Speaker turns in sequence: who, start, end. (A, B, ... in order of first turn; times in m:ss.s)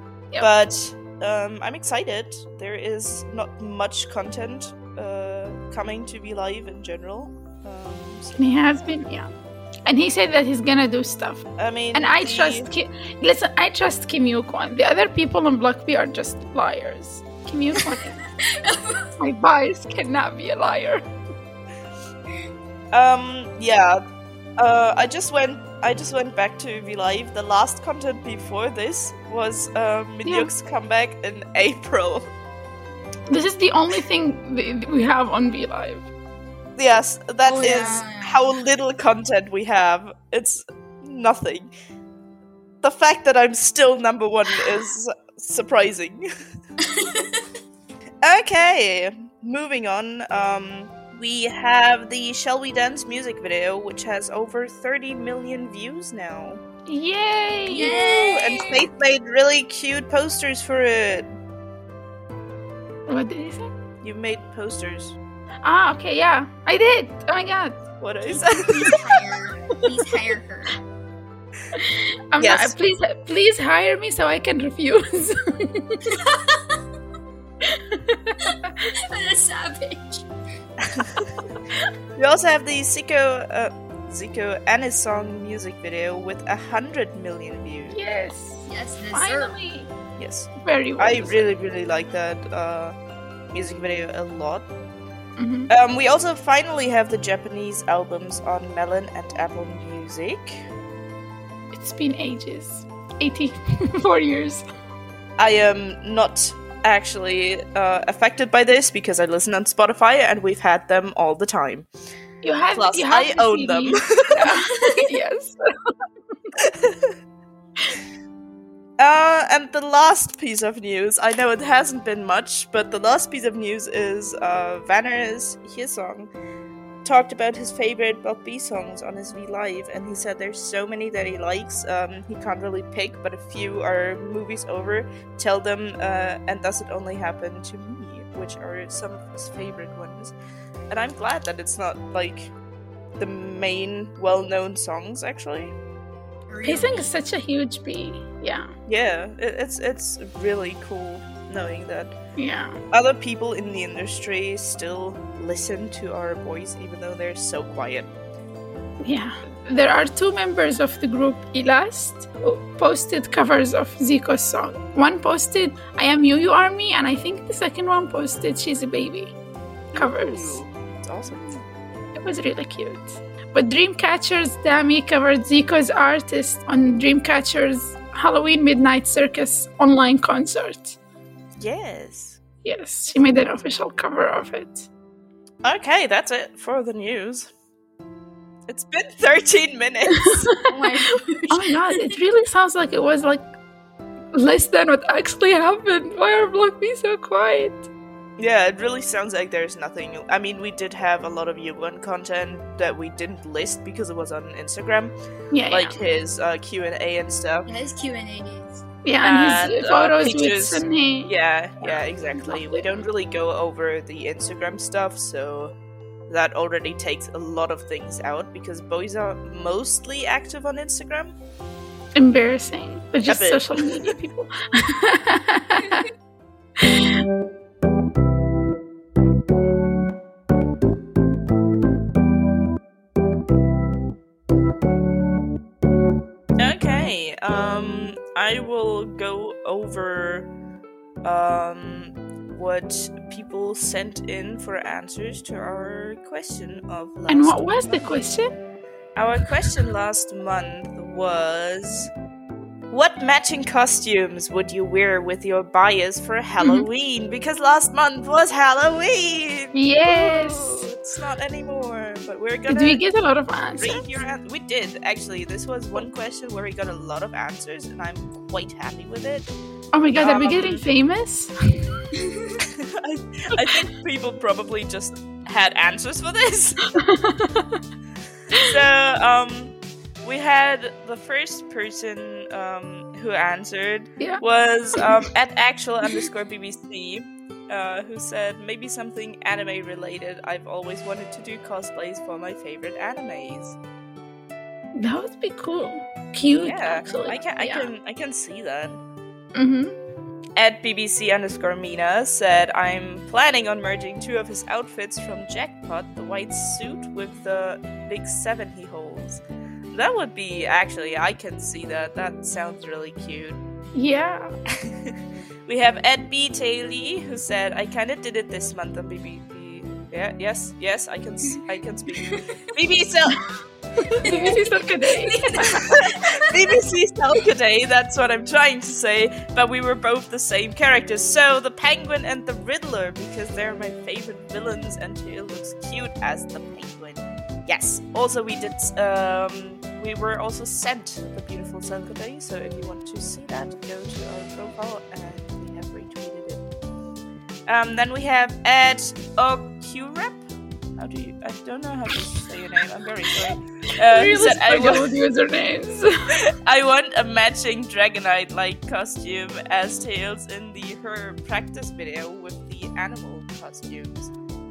0:00.4-0:08.9 A
0:08.4-0:09.3 B
0:09.9-0:18.2 B
0:11.6-0:12.7 A
0:17.8-0:19.1 C
0:19.2-0:21.0 B
0:22.9-0:24.0 A
0:24.6-0:32.3 A
0:30.2-0:30.5 B
0:33.3-0:36.1 B
0:36.8-0:41.7 A
0:37.4-0:38.5 C
0:42.8-0:46.3 A
0:46.8-0:47.4 C
0:48.2-0:56.6 A
0:56.9-0:57.9 B
0:57.7-0:58.9 C
0:57.7-1:01.3 A
1:03.1-1:03.7 B
1:04.0-1:05.2 A
1:05.6-1:07.8 B
1:08.0-1:09.0 A
1:08.3-1:10.8 C
1:11.8-1:16.0 B
1:12.4-1:12.8 A
1:16.0-1:16.8 C
1:17.6-1:18.7 B
1:18.4-1:20.3 C
1:20.8-1:21.3 A
1:22.2-1:28.0 A
1:27.9-1:29.9 B
1:28.7-1:29.6 C
1:30.2-1:33.0 A
1:30.6-1:31.4 B
1:33.5-1:34.7 A
1:35.4-1:35.7 B
1:35.7-1:40.6 A
1:41.7-1:44.6 B
1:45.4-1:51.9 A
1:52.4-1:55.6 B
1:52.7-1:54.6 A
1:54.4-1:55.2 C
1:56.6-1:57.1 A
1:59.0-2:06.3 A
2:07.0-2:20.3 A
2:20.9-2:22.5 A
2:23.2-2:25.8 A
2:26.5-2:27.1 C
2:26.6-2:28.7 B
2:28.9-2:32.2 A
2:32.4-2:32.8 B
2:32.9-2:38.1 A
2:39.0-2:49.3 B
2:49.9-2:51.6 A
2:50.0-2:50.6 B
2:52.2-3:01.0 B
3:01.6-3:02.4 A
3:02.6-3:04.9 B
3:05.6-3:07.5 A
3:08.7-3:10.5 A
3:10.2-3:10.6 B
3:10.7-3:12.2 C
3:11.5-3:13.5 B
3:14.3-3:17.9 B
3:18.4-3:25.1 A
3:25.5-3:26.0 B
3:25.7-3:27.7 A
3:27.7-3:28.8 C
3:29.0-3:33.0 B
3:29.2-3:35.8 A
3:36.3-3:41.4 A
3:42.2-3:46.1 B
3:43.3-3:44.2 A
3:46.8-3:47.2 B
3:56.6-4:00.5 A
4:01.2-4:08.3 A
4:07.3-4:08.5 B
4:09.2-4:12.1 A
4:12.9-4:23.0 A
4:16.6-4:16.9 B
4:19.8-4:20.9 B
4:22.7-4:24.2 B
4:23.8-4:29.5 A
4:29.9-4:32.0 B
4:30.2-4:30.9 A
4:32.2-4:32.6 C
4:32.7-4:36.9 A
4:37.0-4:37.8 B
4:38.5-4:53.8 A
4:55.0-4:57.9 B
4:56.5-4:59.0 A
4:59.6-5:00.0 B
5:00.6-5:09.4 A
5:09.9-5:13.6 A
5:14.0-5:14.5 B
5:14.7-5:23.4 A
5:22.1-5:22.5 C
5:24.0-5:24.5 A
5:24.2-5:26.7 C
5:24.2-5:26.1 B
5:26.0-5:46.7 A
5:47.7-5:50.4 A
5:51.0-5:55.2 A
5:53.5-5:56.3 B
5:56.4-6:04.3 A